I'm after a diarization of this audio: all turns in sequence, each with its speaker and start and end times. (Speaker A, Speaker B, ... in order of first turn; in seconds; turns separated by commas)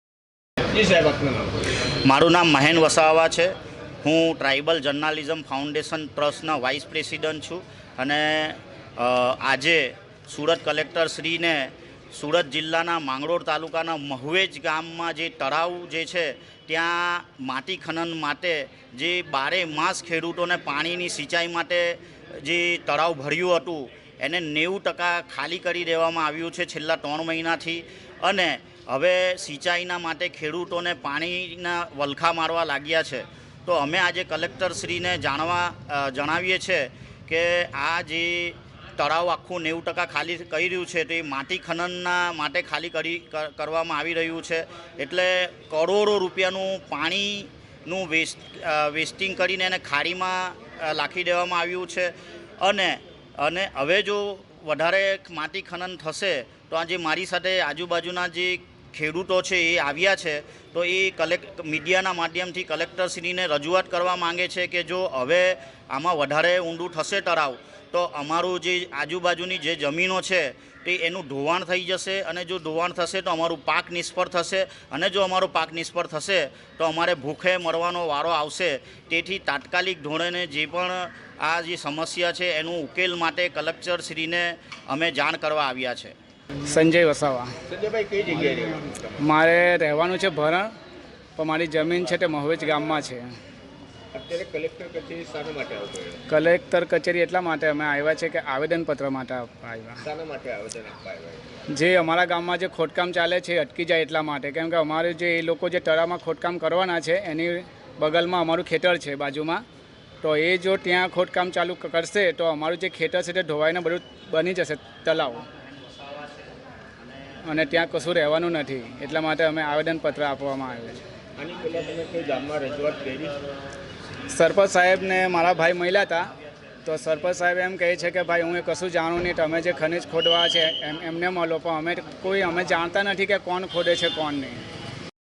Speaker A: 0.7-1.6, Speaker B: 2.0-3.5, Speaker B: 4.0-86.1, Speaker C: 86.7-87.5, Speaker A: 87.7-89.2, Speaker C: 89.2-90.7, Speaker C: 91.4-93.2, Speaker A: 94.1-96.2, Speaker C: 96.3-100.0, Speaker A: 100.0-101.5, Speaker C: 101.7-109.6, Speaker C: 110.2-115.4, Speaker C: 117.5-121.0, Speaker A: 121.4-123.4, Speaker C: 124.3-126.3, Speaker C: 126.8-134.6